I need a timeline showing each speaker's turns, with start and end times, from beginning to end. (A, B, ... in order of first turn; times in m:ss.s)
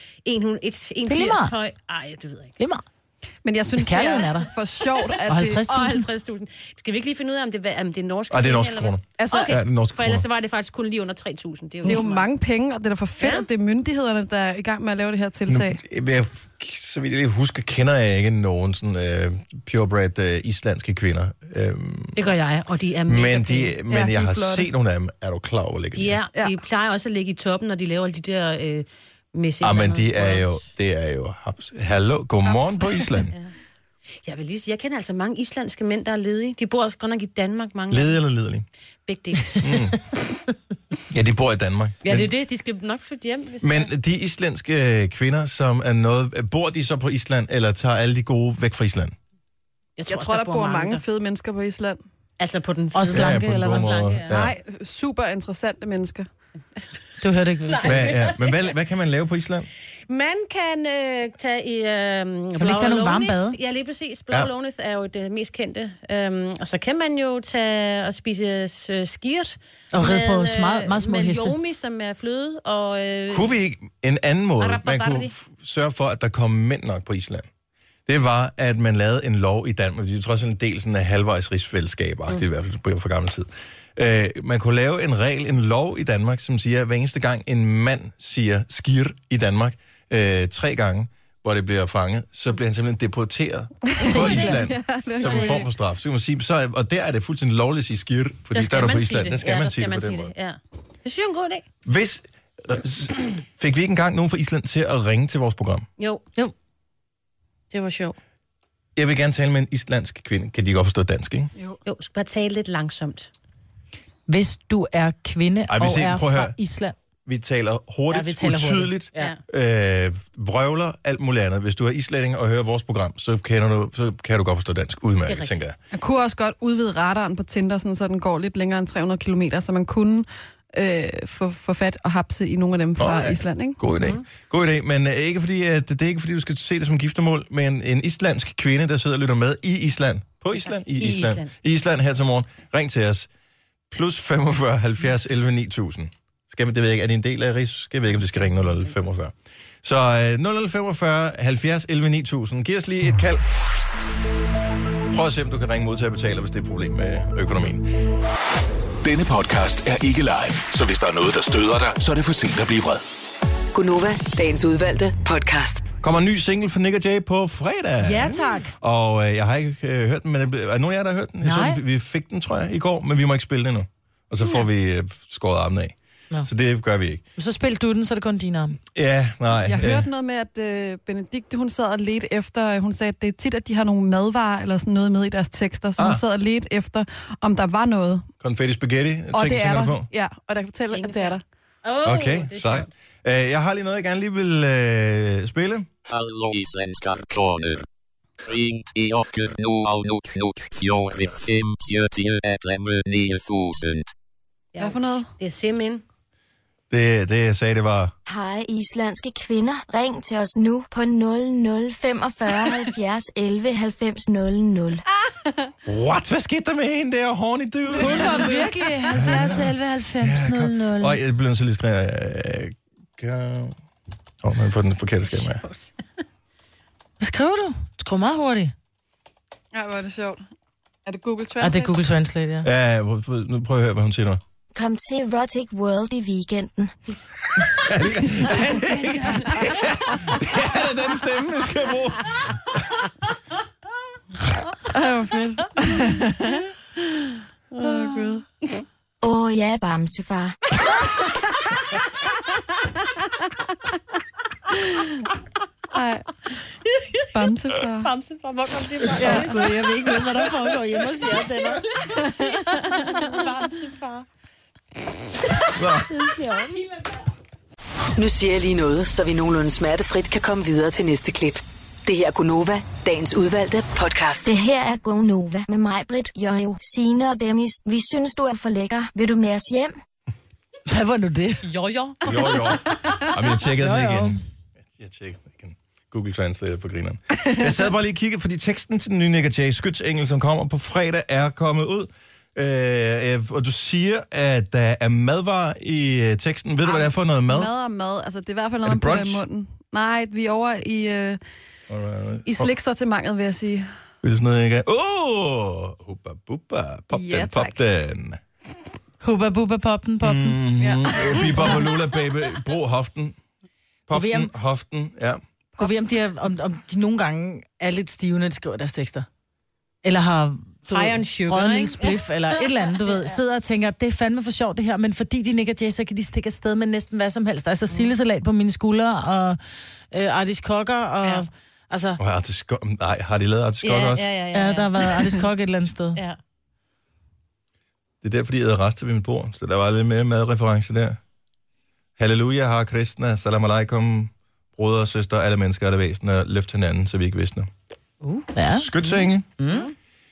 0:00.2-0:02.5 A
0:01.1-0:01.5 B
0:03.4-0:05.7 C
0:03.8-0:04.5 B
0:05.3-0:06.1 B
0:05.7-0:12.3 A
0:08.3-0:10.2 D
0:09.2-0:09.5 C
0:11.8-0:15.8 C
0:13.2-0:13.5 A
0:15.5-0:22.2 D
0:22.2-0:24.2 A
0:23.1-0:26.2 D
0:26.0-0:30.6 A
0:29.6-0:33.4 D
0:32.4-0:33.0 C
0:34.2-0:38.2 A
0:37.9-0:38.7 D
0:39.1-0:39.7 A
0:39.6-0:40.0 D
0:41.1-0:42.3 D
0:42.0-0:43.9 A
0:43.6-0:49.2 D
0:50.0-0:51.0 A
0:50.1-0:52.0 C
0:52.4-0:54.4 A
0:52.9-0:53.9 B
0:53.1-0:54.6 D
0:54.3-0:56.3 C
0:57.2-0:58.1 B
0:57.6-0:58.7 A
0:57.8-0:59.7 D
1:00.1-1:13.5 A
1:02.6-1:03.6 B
1:09.9-1:11.6 B
1:13.3-1:17.5 D
1:14.6-1:15.3 A
1:18.1-1:40.3 D
1:34.0-1:35.7 C
1:34.1-1:34.6 B
1:34.1-1:34.6 A
1:35.2-1:35.6 A
1:38.5-1:41.6 A
1:41.8-1:45.9 D
1:46.0-1:46.2 A
1:47.7-1:48.2 A
1:49.0-1:51.5 D
1:51.8-1:53.3 A
1:54.3-1:57.0 B
1:55.7-1:56.6 D
1:57.3-2:05.8 D
1:58.1-1:59.3 B
1:59.1-1:59.4 A
2:05.3-2:05.6 A
2:05.9-2:13.8 C
2:13.0-2:23.3 D
2:14.0-2:14.2 A
2:20.7-2:21.5 A
2:23.9-2:33.4 D
2:35.1-2:37.9 D
2:39.0-2:43.0 E
2:43.7-2:45.8 F
2:46.0-2:56.0 D
2:48.0-2:48.7 B
2:51.4-2:51.8 B
2:56.5-2:57.2 D
2:57.4-2:58.8 B
2:59.0-3:00.1 D
2:59.6-3:08.3 C
3:06.0-3:06.2 D
3:08.4-3:10.1 D
3:09.3-3:11.4 C
3:10.9-3:12.9 A
3:12.0-3:15.9 D
3:16.1-3:17.8 G
3:18.4-3:24.1 G
3:24.7-3:26.0 A
3:24.8-3:25.3 C
3:26.9-3:28.1 D
3:28.3-3:35.0 H
3:35.9-3:43.8 D
3:38.0-3:41.2 B
3:44.4-3:45.6 D
3:45.2-3:46.0 A
3:47.2-3:48.7 B
3:49.7-3:50.4 C
3:51.1-3:52.0 C
3:51.6-3:52.7 B
3:52.6-3:54.4 D
3:54.7-3:57.0 H
3:57.6-4:02.8 D
4:04.9-4:07.0 C
4:07.7-4:08.4 C
4:09.2-4:10.6 H
4:14.7-4:15.2 C
4:15.9-4:16.3 C
4:17.3-4:18.1 C
4:18.0-4:20.2 A
4:19.2-4:19.8 C
4:19.2-4:21.8 B
4:21.3-4:24.3 A
4:22.2-4:23.4 C
4:25.8-4:26.1 D
4:26.1-4:26.8 B
4:26.5-4:27.2 A
4:28.2-4:34.4 F
4:34.4-4:40.0 H
4:40.9-4:41.7 B
4:41.6-4:42.6 A
4:42.2-4:44.4 D
4:43.8-4:44.4 B
4:44.9-4:57.7 D
4:56.8-5:01.4 C
4:58.8-4:59.4 D
5:01.9-5:02.7 D
5:02.5-5:03.9 C
5:04.2-5:08.4 D
5:07.1-5:07.8 C
5:09.2-5:10.6 B
5:10.2-5:13.4 D
5:10.8-5:11.9 C
5:14.1-5:15.4 D
5:14.1-5:14.5 B
5:15.8-5:19.3 B
5:20.0-5:29.6 B
5:20.9-5:23.4 A
5:30.1-5:32.2 B
5:32.2-5:34.3 D
5:33.8-5:35.3 A
5:34.5-5:36.2 B
5:38.2-5:41.2 D
5:42.2-5:47.7 D
5:48.5-5:48.9 B
5:48.7-5:49.5 D
5:49.6-5:49.9 B